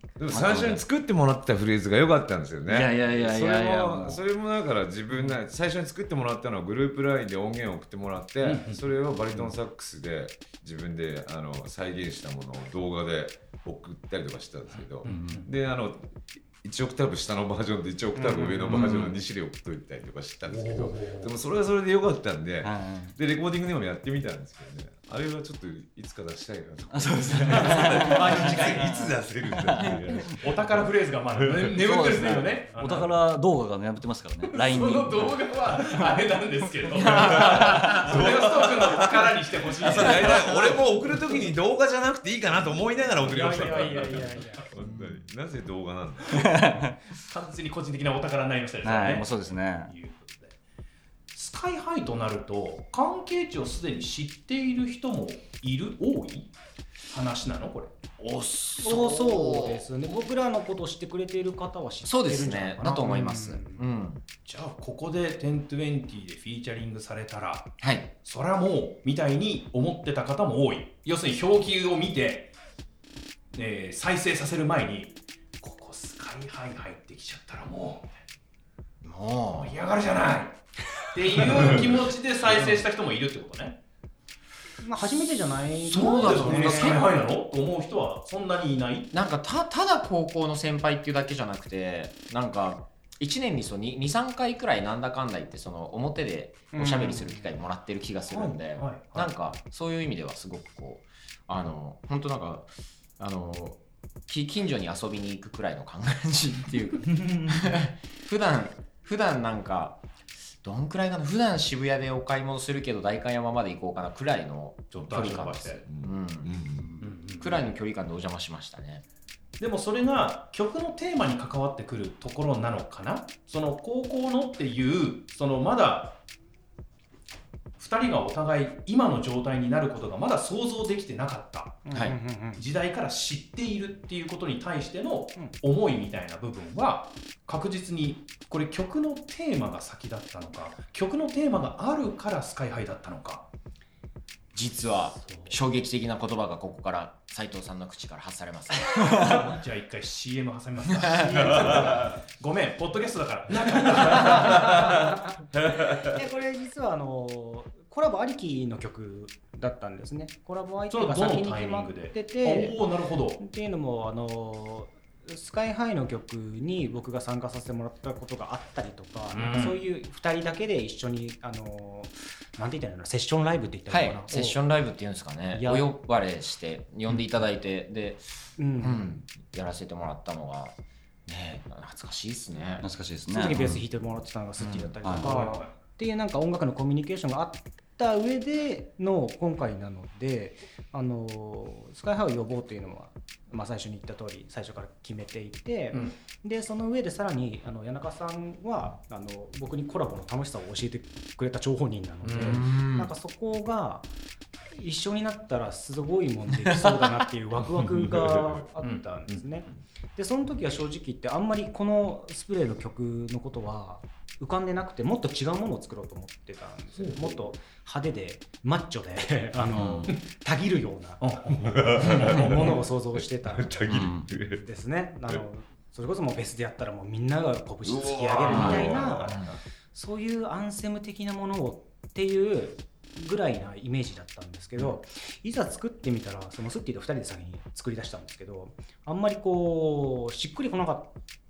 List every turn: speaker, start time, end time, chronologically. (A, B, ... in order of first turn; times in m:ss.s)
0:00.2-0:30.8 A
0:00.3-0:00.8 B
0:02.7-0:04.2 B
0:08.4-0:08.9 C
0:15.0-0:15.5 C
0:15.0-0:15.4 B
0:18.2-0:18.7 D
0:18.6-0:19.1 B
0:18.7-0:19.0 C
0:20.5-0:21.3 C
0:22.6-0:23.2 B
0:26.9-0:30.2 B
0:27.7-0:28.8 C
0:27.8-0:28.7 D
0:30.2-0:33.2 C
0:31.3-0:31.8 A
0:31.5-0:36.2 B
0:34.5-0:41.3 C
0:36.8-0:38.2 B
0:37.1-0:39.3 A
0:39.8-0:46.6 A
0:43.2-0:44.7 D
0:43.6-0:44.2 C
0:44.8-0:45.1 E
0:46.4-0:46.9 B
0:47.1-0:50.6 C
0:48.8-0:49.9 B
0:51.3-0:56.5 C
0:57.1-0:57.9 C
0:58.2-0:59.8 E
0:58.8-1:03.8 D
1:02.0-1:04.2 E
1:04.4-1:12.5 C
1:07.8-1:08.1 E
1:13.5-1:18.2 C
1:19.0-1:19.7 E
1:19.6-1:23.8 C
1:24.8-1:27.1 D
1:25.0-1:29.1 C
1:26.1-1:27.2 E
1:29.1-1:50.0 E
1:36.7-1:37.4 D
1:38.3-1:39.3 C
1:47.1-1:47.7 C
1:50.6-1:56.5 E
1:54.9-1:55.8 C
1:55.9-1:56.9 A
1:57.0-1:57.6 C
1:57.4-1:59.0 E
1:59.6-2:06.2 C
2:07.8-2:11.8 C
2:11.8-2:12.6 D
2:11.9-2:12.2 E
2:12.6-2:23.5 C
2:24.5-2:29.4 E
2:29.0-2:34.9 C
2:31.2-2:31.8 D
2:31.5-2:32.0 A
2:34.1-2:35.1 D
2:35.8-2:42.8 D
2:40.9-2:43.4 C
2:43.4-2:54.6 D
2:49.3-2:49.8 C
2:53.9-2:58.3 E
2:55.5-2:55.9 D
2:58.6-2:59.2 D
2:58.8-3:02.8 E
3:02.8-3:03.8 B
3:03.3-3:24.1 D
3:04.6-3:04.9 E
3:05.0-3:05.3 B
3:05.2-3:05.8 C
3:22.2-3:22.6 C
3:22.4-3:23.1 E
3:24.7-3:43.8 D
3:28.2-3:28.6 A
3:28.8-3:29.8 C
3:37.0-3:37.4 A
3:39.7-3:40.1 B
3:41.2-3:42.7 C
3:41.6-3:44.6 A
3:43.9-3:44.3 B
3:44.5-4:01.1 D
3:47.8-3:49.4 A
3:48.5-3:48.9 B
3:48.5-3:49.5 E
3:48.6-3:49.4 C